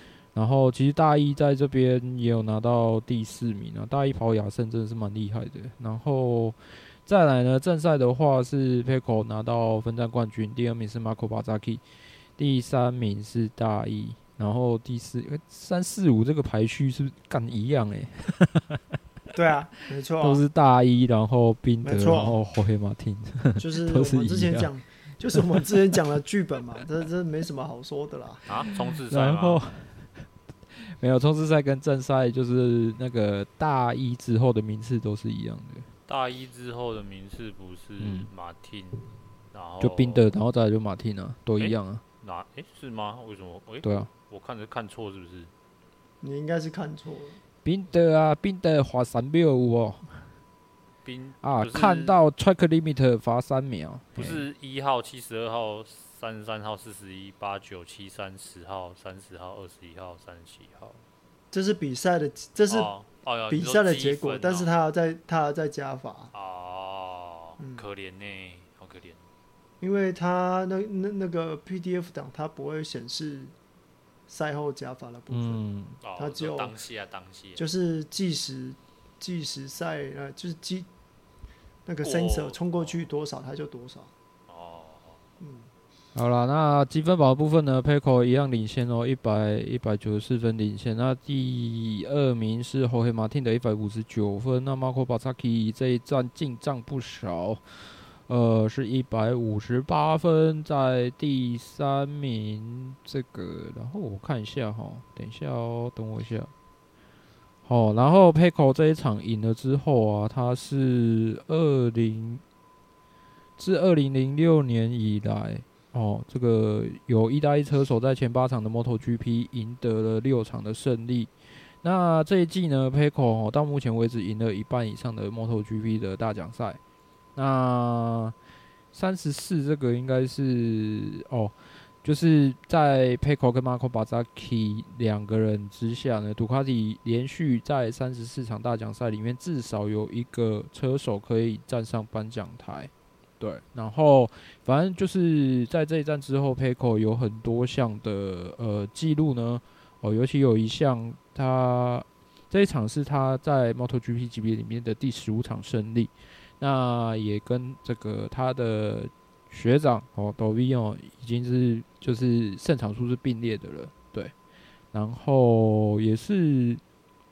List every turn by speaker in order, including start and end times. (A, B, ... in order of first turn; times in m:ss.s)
0:00.3-0:11.8 A
0:12.4-0:18.8 A
0:19.3-0:20.4 B
0:20.2-0:24.7 A
0:21.8-0:22.4 B
0:23.6-0:28.4 B
0:25.3-0:25.6 A
0:28.5-0:29.6 C
0:29.1-0:30.3 A
0:30.8-0:35.9 A
0:36.1-0:40.3 C
0:38.0-0:38.3 A
0:39.8-0:42.0 A
0:41.6-0:45.5 C
0:46.2-0:47.4 B
0:47.6-0:50.2 A
0:51.0-0:52.2 C
0:51.4-0:54.4 A
0:54.1-1:01.0 C
1:01.5-1:02.9 B
1:02.7-1:04.7 C
1:03.5-1:06.3 B
1:06.3-1:09.2 C
1:07.6-1:07.8 B
1:09.8-1:13.5 B
1:14.3-1:15.6 B
1:15.3-1:16.0 A
1:16.0-1:17.6 C
1:16.2-1:16.8 B
1:17.6-1:20.9 B
1:21.8-1:24.1 B
1:22.0-1:22.6 C
1:24.5-1:25.2 C
1:25.4-1:25.7 B
1:26.1-1:46.5 A
1:47.6-1:52.4 A
1:53.6-2:06.8 A
2:07.4-2:08.3 A
2:08.9-2:44.3 A
2:44.9-2:46.8 A